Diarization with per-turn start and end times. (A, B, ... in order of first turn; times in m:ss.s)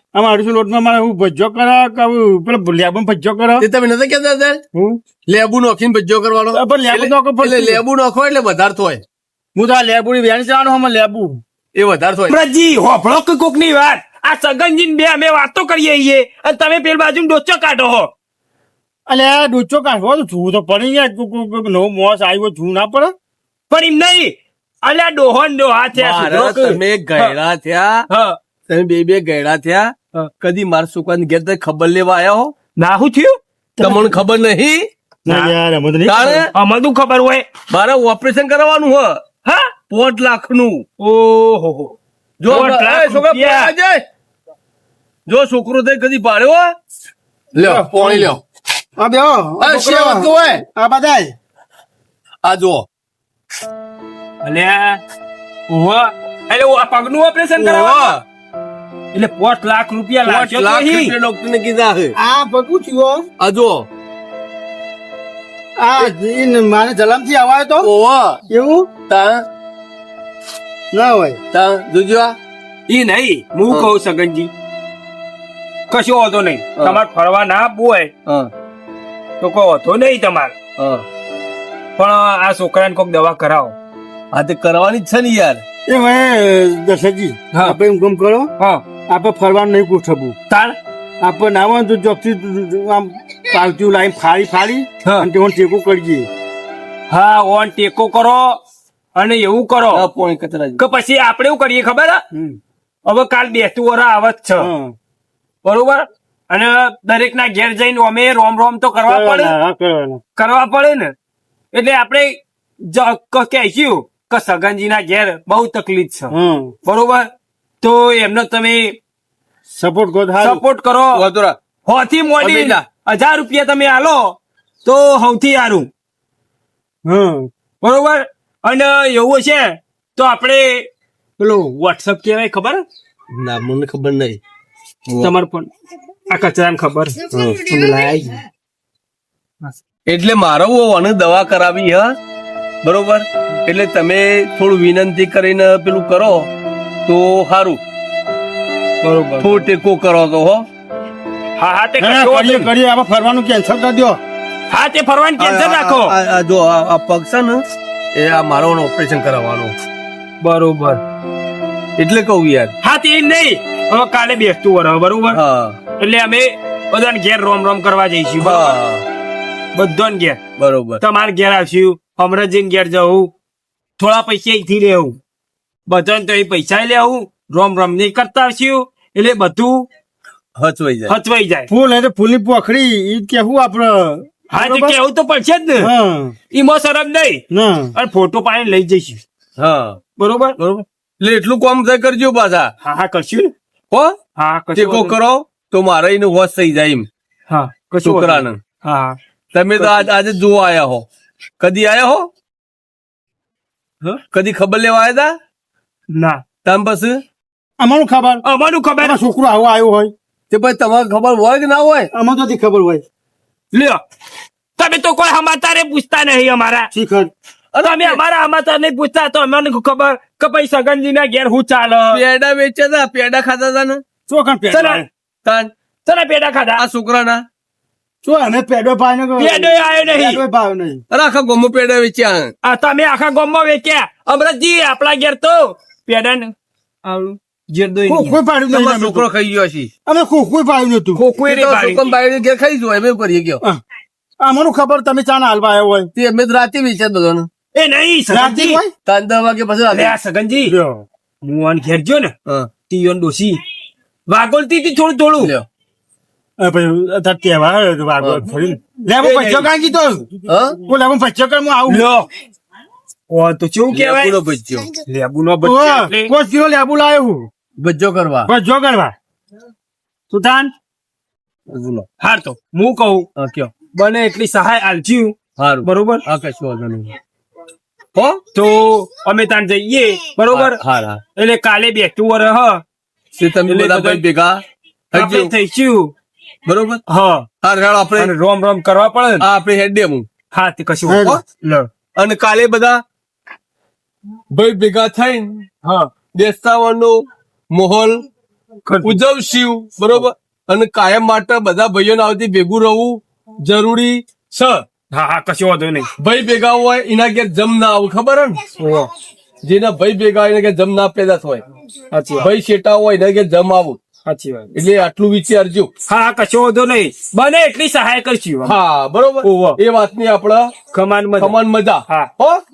0:00.1-0:03.6 A
0:03.6-0:04.6 B
0:04.7-0:05.0 A
0:05.2-0:09.0 B
0:06.5-0:07.8 A
0:09.5-0:11.4 A
0:11.7-0:12.4 B
0:12.3-0:18.1 C
0:19.1-0:23.1 A
0:23.7-0:27.3 C
0:26.0-0:28.0 B
0:28.1-0:28.4 C
0:28.7-0:32.5 B
0:32.8-0:33.4 C
0:33.8-0:34.1 A
0:33.8-0:34.9 B
0:35.2-0:36.4 A
0:35.3-0:35.5 C
0:36.0-0:36.5 B
0:36.5-0:37.4 C
0:37.7-0:39.2 B
0:39.4-0:39.7 C
0:39.9-0:40.8 B
0:41.0-0:42.0 C
0:42.4-0:44.0 B
0:42.5-0:43.7 C
0:45.3-0:46.7 B
0:47.5-0:48.4 B
0:47.6-0:48.3 A
0:49.0-0:51.3 A
0:49.6-0:50.6 B
0:52.4-0:52.8 B
0:54.4-0:55.0 C
0:55.7-0:58.1 C
0:57.6-0:58.2 B
0:59.1-1:01.1 C
1:00.2-1:02.1 B
1:02.2-1:03.2 A
1:03.4-1:03.9 B
1:05.8-1:07.9 A
1:07.8-1:08.4 B
1:08.5-1:08.9 A
1:09.1-1:09.4 B
1:10.9-1:11.4 A
1:11.5-1:12.4 B
1:12.9-1:14.5 C
1:15.9-1:18.1 C
1:19.4-1:20.5 C
1:20.8-1:21.0 B
1:22.0-1:23.7 C
1:24.3-1:25.6 B
1:25.9-1:28.5 A
1:29.1-1:30.3 A
1:30.5-1:30.8 C
1:31.2-1:36.3 A
1:37.1-1:38.6 C
1:39.1-1:40.0 C
1:39.9-1:40.8 B
1:40.8-1:42.2 C
1:42.3-1:42.6 A
1:43.0-1:44.7 C
1:44.6-1:44.9 A
1:45.6-1:49.5 C
1:49.1-1:50.2 A
1:50.4-1:51.1 C
1:51.7-1:56.3 C
1:56.3-1:56.7 A
1:56.8-1:57.3 C
1:57.8-1:59.0 C
1:59.7-2:00.6 A
2:00.4-2:01.2 C
2:01.1-2:01.6 B
2:01.8-2:05.9 C
2:02.4-2:02.8 B
2:07.0-2:07.5 A
2:07.8-2:12.8 C
2:13.3-2:14.4 B
2:15.2-2:15.7 C
2:16.3-2:18.4 C
2:17.3-2:17.6 A
2:20.1-2:22.1 B
2:22.8-2:26.5 B
2:27.0-2:27.8 B
2:29.0-2:29.6 C
2:29.4-2:30.6 B
2:31.6-2:32.7 C
2:32.0-2:34.2 A
2:34.7-2:36.1 C
2:35.4-2:37.6 B
2:38.1-2:39.7 B
2:40.4-2:41.0 C
2:42.0-2:42.7 B
2:42.8-2:45.4 C
2:45.3-2:45.8 B
2:46.0-2:48.7 C
2:48.4-2:49.0 B
2:49.7-2:50.4 C
2:50.6-2:51.0 B
2:51.0-2:53.3 C
2:54.0-2:55.2 C
2:55.9-2:59.9 C
3:00.6-3:01.1 B
3:01.1-3:01.7 C
3:01.7-3:05.0 A
3:04.5-3:05.9 C
3:05.8-3:06.3 A
3:06.5-3:07.4 C
3:07.5-3:07.9 A
3:07.9-3:09.2 C
3:09.6-3:10.0 B
3:10.2-3:10.6 C
3:10.6-3:12.7 B
3:12.8-3:13.5 C
3:13.9-3:14.2 B
3:14.4-3:15.1 C
3:14.8-3:17.0 B
3:17.5-3:19.2 C
3:18.0-3:18.6 B
3:19.5-3:21.0 B
3:19.8-3:20.0 C
3:21.6-3:22.3 B
3:24.3-3:25.3 B
3:26.1-3:26.4 C
3:26.6-3:27.2 B
3:27.8-3:28.4 A
3:28.4-3:29.2 C
3:29.0-3:30.1 A
3:30.5-3:32.1 B
3:32.1-3:33.0 A
3:33.7-3:34.0 C
3:34.8-3:36.9 C
3:36.9-3:37.3 A
3:37.7-3:38.2 B
3:37.8-3:42.2 C
3:42.1-3:44.0 B
3:44.3-3:45.0 A
3:44.7-3:45.0 C
3:45.4-3:45.7 B
3:46.0-3:46.8 C
3:46.8-3:47.4 B
3:48.2-3:51.0 A
3:49.4-3:50.4 C
3:51.1-3:52.5 B
3:52.6-3:56.5 C
3:57.0-3:58.4 C
3:58.1-3:59.3 A
3:58.7-3:59.9 B
4:00.0-4:01.2 A
4:01.2-4:02.1 C
4:01.4-4:03.6 B
4:04.4-4:06.1 A
4:06.1-4:07.5 B
4:07.7-4:08.8 C
4:08.3-4:08.9 A
4:09.0-4:10.2 B
4:09.9-4:10.7 C
4:10.6-4:11.0 A
4:11.4-4:12.3 C
4:12.9-4:13.6 C
4:14.3-4:15.5 C
4:15.4-4:15.6 B
4:16.6-4:22.0 A
4:18.2-4:18.5 B
4:19.2-4:19.7 C
4:20.5-4:20.8 B
4:21.9-4:22.2 C
4:23.3-4:24.4 C
4:23.9-4:24.9 B
4:25.0-4:26.3 C
4:25.6-4:27.5 A
4:27.8-4:28.5 B
4:28.5-4:29.1 A
4:30.3-4:30.7 A
4:31.7-4:32.1 B
4:32.2-4:33.3 C
4:33.4-4:33.7 B
4:33.9-4:36.2 C
4:35.6-4:37.2 B
4:38.1-4:38.4 B
4:38.5-4:40.8 C
4:40.5-4:41.2 B
4:41.3-4:42.8 C
4:43.4-4:44.6 B
4:43.7-4:44.2 C
4:45.1-4:45.5 B
4:45.1-4:46.1 C
4:46.6-4:47.0 B
4:47.1-4:47.5 C
4:47.6-4:48.3 B
4:48.2-4:49.4 C
4:49.4-4:50.2 B
4:50.5-4:51.9 C
4:51.1-4:51.4 A
4:52.2-4:53.0 B
4:54.5-4:55.7 B
4:55.8-4:56.1 C
4:56.3-4:57.2 B
4:57.7-4:58.2 B
4:58.8-4:59.2 C
4:59.0-5:04.8 B
5:05.1-5:06.1 C
5:06.2-5:08.6 B
5:08.8-5:09.1 C
5:09.6-5:11.6 B
5:12.1-5:12.5 C
5:12.4-5:14.0 B
5:14.2-5:14.7 C
5:14.7-5:15.9 B
5:16.1-5:18.7 C
5:18.6-5:20.7 B
5:19.4-5:19.8 C
5:20.9-5:21.5 C
5:21.4-5:22.6 B